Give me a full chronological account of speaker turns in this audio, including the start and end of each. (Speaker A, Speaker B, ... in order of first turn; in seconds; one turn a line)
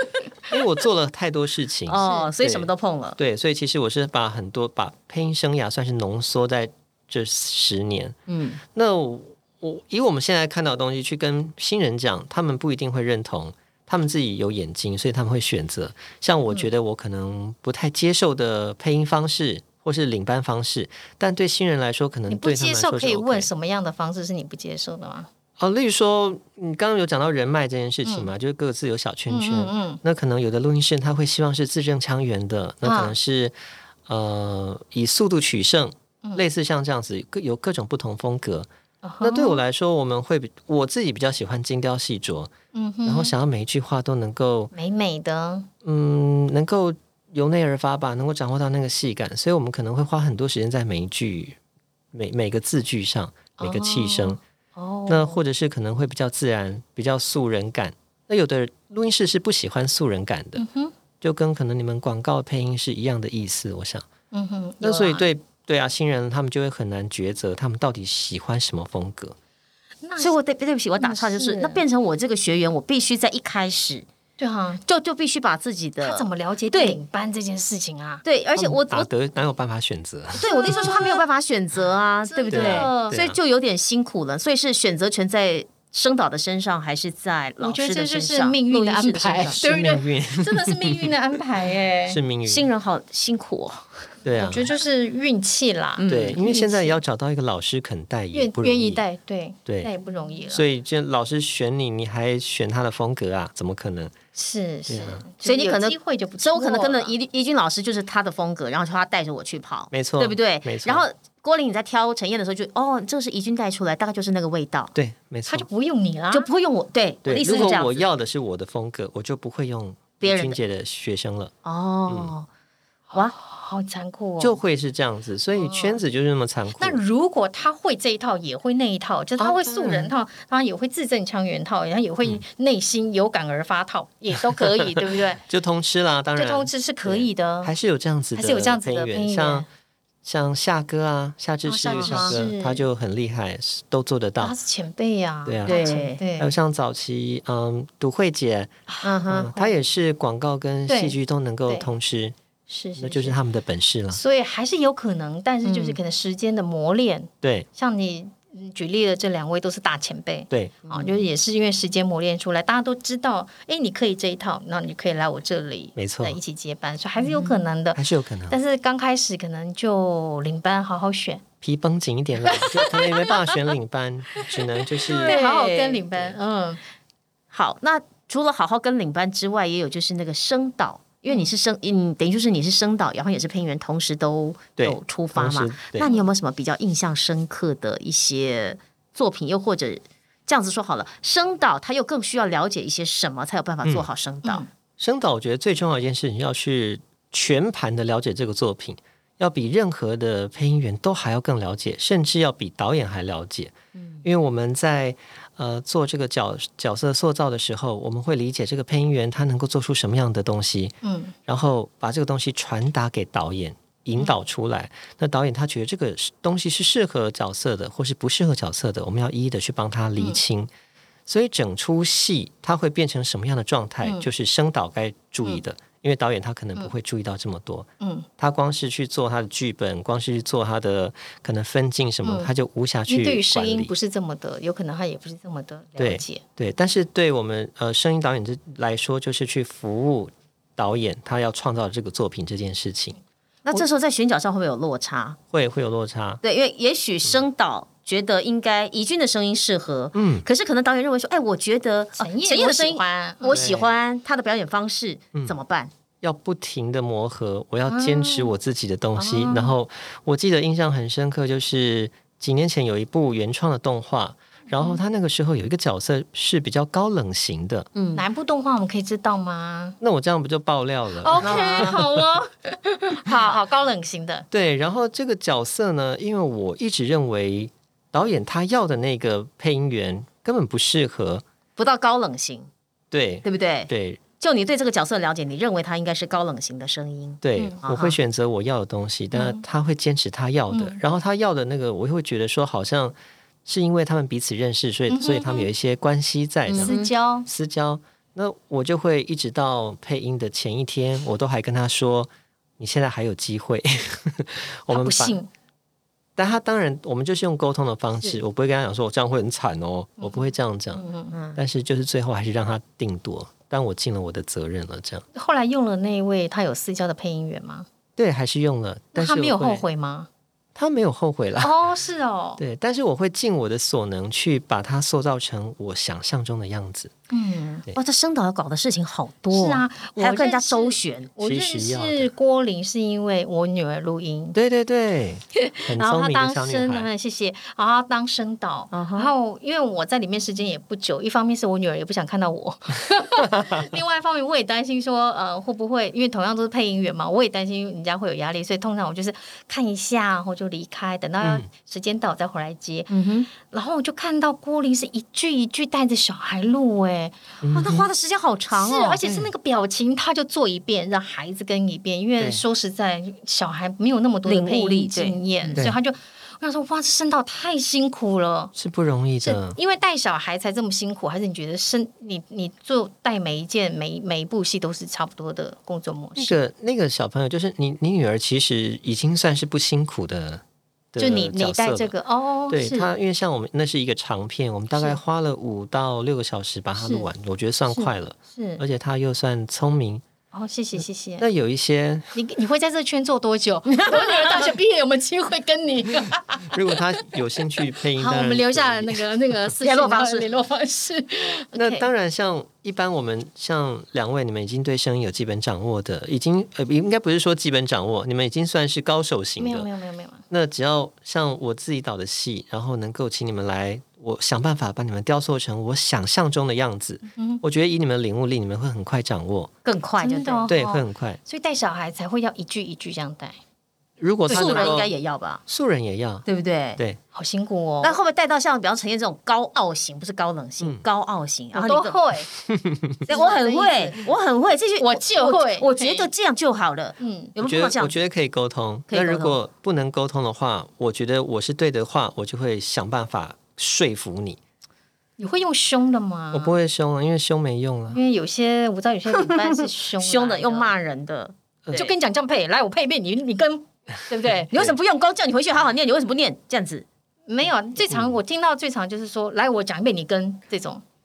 Speaker A: 0.5-23.5
Speaker B: 1.9-3.2
Speaker C: 2.0-2.3
Speaker B: 8.3-8.6
Speaker C: 22.3-25.3
Speaker A: 25.6-33.5
Speaker C: 28.0-28.3
Speaker C: 29.3-30.0
Speaker C: 32.8-33.1
Speaker A: 34.1-38.7
Speaker C: 39.0-39.6
Speaker A: 39.2-42.5
Speaker C: 42.7-43.3
Speaker A: 43.0-44.7
Speaker C: 44.7-45.7
Speaker A: 45.8-51.6
Speaker A: 52.1-54.4
Speaker C: 53.6-55.4
Speaker A: 55.1-60.6
Speaker C: 60.5-60.9
Speaker A: 61.2-64.1
Speaker C: 64.3-65.2
Speaker A: 64.8-69.3
Speaker C: 70.0-70.3
Speaker B: 70.2-74.0
Speaker C: 71.0-71.8
Speaker C: 74.4-74.8
Speaker B: 74.8-77.0
Speaker C: 76.0-78.2
Speaker B: 78.2-79.1
Speaker A: 78.6-80.5
Speaker B: 80.3-89.6
Speaker C: 80.4-81.2
Speaker C: 82.3-83.2
Speaker A: 82.5-83.4
Speaker C: 87.6-92.2
Speaker A: 89.5-91.3
Speaker A: 92.0-92.7
Speaker B: 92.5-94.0
Speaker A: 94.2-94.7
Speaker C: 94.2-97.0
Speaker B: 96.0-96.4
Speaker A: 96.1-99.0
Speaker C: 98.3-100.6
Speaker A: 99.7-99.9
Speaker A: 100.5-104.1
Speaker C: 104.3-107.1
Speaker A: 104.9-105.2
Speaker B: 105.4-114.9
Speaker A: 109.9-111.0
Speaker A: 114.9-115.7
Speaker C: 115.5-116.5
Speaker B: 116.3-118.0
Speaker A: 117.2-121.5
Speaker B: 120.2-120.6
Speaker B: 121.6-122.5
Speaker A: 122.1-122.3
Speaker C: 123.1-124.6
Speaker A: 124.4-127.0
Speaker C: 125.5-126.0
Speaker C: 126.8-135.4
Speaker A: 129.4-130.1
Speaker A: 135.4-139.7
Speaker C: 136.3-137.7
Speaker C: 138.3-139.7
Speaker A: 140.2-144.5
Speaker C: 141.6-142.8
Speaker B: 141.9-142.3
Speaker C: 144.4-146.5
Speaker A: 145.4-145.8
Speaker B: 145.7-146.2
Speaker A: 146.4-148.7
Speaker C: 148.9-149.7
Speaker B: 149.0-149.5
Speaker A: 149.3-152.3
Speaker C: 150.9-151.9
Speaker C: 152.7-153.4
Speaker A: 153.0-154.2
Speaker C: 154.1-171.4
Speaker B: 155.6-156.0
Speaker A: 157.4-157.7
Speaker A: 160.5-160.8
Speaker B: 160.9-161.2
Speaker A: 165.9-166.4
Speaker B: 167.3-167.6
Speaker A: 167.9-168.6
Speaker A: 171.6-175.3
Speaker C: 172.4-173.6
Speaker C: 174.4-176.8
Speaker B: 175.0-176.0
Speaker B: 177.5-194.6
Speaker A: 184.8-186.1
Speaker A: 195.0-210.9
Speaker B: 203.9-204.2
Speaker C: 211.0-211.3
Speaker A: 211.5-220.7
Speaker A: 221.2-233.9
Speaker C: 228.0-228.3
Speaker C: 232.2-232.5
Speaker C: 233.1-236.4
Speaker A: 236.0-243.2
Speaker B: 243.7-245.4
Speaker A: 245.5-246.4
Speaker B: 246.4-255.9
Speaker A: 250.1-250.4
Speaker C: 252.2-253.6
Speaker A: 253.5-253.9
Speaker A: 256.2-267.9
Speaker C: 257.9-258.5
Speaker C: 259.2-259.7
Speaker C: 264.7-265.0
Speaker B: 267.9-268.2
Speaker C: 268.1-270.0
Speaker A: 270.0-272.0
Speaker C: 271.2-274.4
Speaker B: 271.4-271.9
Speaker A: 274.5-281.4
Speaker B: 281.8-282.7
Speaker A: 283.1-284.2
Speaker B: 283.4-288.2
Speaker A: 287.4-305.4
Speaker C: 289.3-289.6
Speaker C: 290.7-291.0
Speaker C: 295.1-295.7
Speaker B: 296.7-297.1
Speaker C: 296.7-297.4
Speaker C: 304.9-305.5
Speaker A: 306.4-315.2
Speaker C: 310.2-311.3
Speaker B: 311.3-311.6
Speaker C: 315.3-317.9
Speaker A: 318.2-319.8
Speaker C: 319.1-320.3
Speaker A: 320.7-321.7
Speaker C: 321.6-322.6
Speaker A: 322.6-327.1
Speaker C: 327.3-327.9
Speaker B: 327.9-331.3
Speaker C: 329.5-334.6
Speaker A: 331.4-332.3
Speaker A: 334.5-337.1
Speaker C: 335.6-357.4
Speaker B: 338.9-339.3
Speaker B: 353.1-353.5
Speaker A: 357.6-358.1
Speaker B: 357.7-359.2
Speaker C: 358.7-368.7
Speaker A: 359.2-359.5
Speaker A: 362.4-362.6
Speaker B: 364.4-365.8
Speaker A: 368.7-369.8
Speaker C: 369.4-376.6
Speaker A: 376.4-382.1
Speaker C: 381.2-383.1
Speaker A: 382.7-390.2
Speaker C: 384.9-385.2
Speaker C: 387.0-387.3
Speaker C: 387.9-388.8
Speaker C: 390.5-391.4
Speaker A: 391.4-392.3
Speaker C: 392.3-397.0
Speaker B: 393.9-394.4
Speaker A: 396.7-399.3
Speaker C: 398.1-402.1
Speaker B: 399.8-400.5
Speaker A: 401.7-409.9
Speaker C: 409.6-410.4
Speaker A: 410.5-419.7
Speaker C: 417.3-417.6
Speaker B: 419.8-420.7
Speaker C: 420.2-423.6
Speaker A: 420.7-421.4
Speaker A: 424.2-425.1
Speaker C: 424.5-425.0
Speaker B: 424.5-425.6
Speaker A: 425.7-426.4
Speaker B: 426.4-427.0
Speaker C: 427.3-428.2
Speaker B: 428.0-432.2
Speaker C: 431.7-432.5
Speaker A: 432.6-433.3
Speaker C: 433.2-434.3
Speaker B: 433.3-438.1
Speaker C: 435.0-436.3
Speaker C: 437.2-437.5
Speaker A: 437.6-444.6
Speaker B: 439.1-439.6
Speaker C: 445.4-446.8
Speaker A: 446.5-448.2
Speaker C: 448.1-450.9
Speaker B: 449.3-452.1
Speaker C: 451.9-454.7
Speaker B: 454.7-457.1
Speaker C: 457.5-461.0
Speaker A: 458.1-458.4